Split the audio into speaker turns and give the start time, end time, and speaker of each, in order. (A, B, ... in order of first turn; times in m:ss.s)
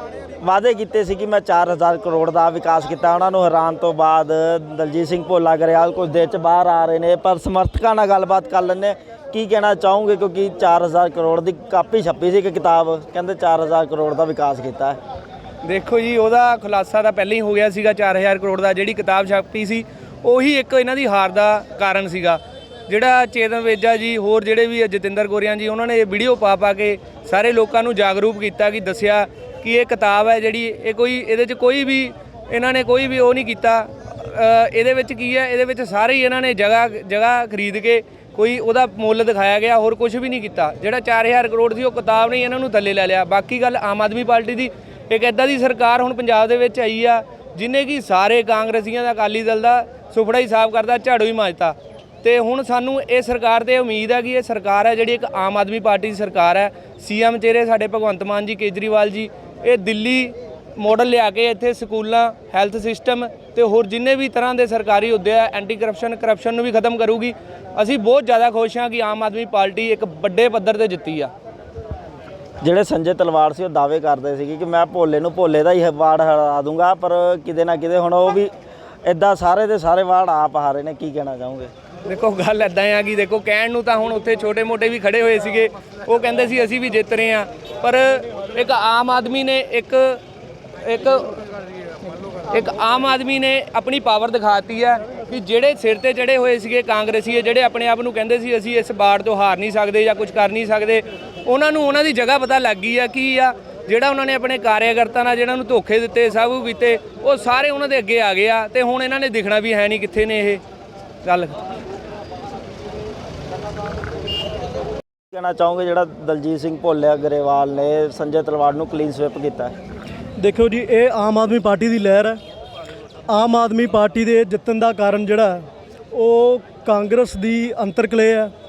0:00.4-0:15.0 A
0:15.6-1:11.3 B
1:12.6-1:18.5 A
1:19.0-1:21.7 A
1:22.0-1:30.2 B
1:30.8-1:31.3 B
1:32.5-1:50.6 B
1:51.2-1:51.6 B
1:55.3-1:59.7 A
2:00.4-2:02.4 C
2:03.3-2:08.5 C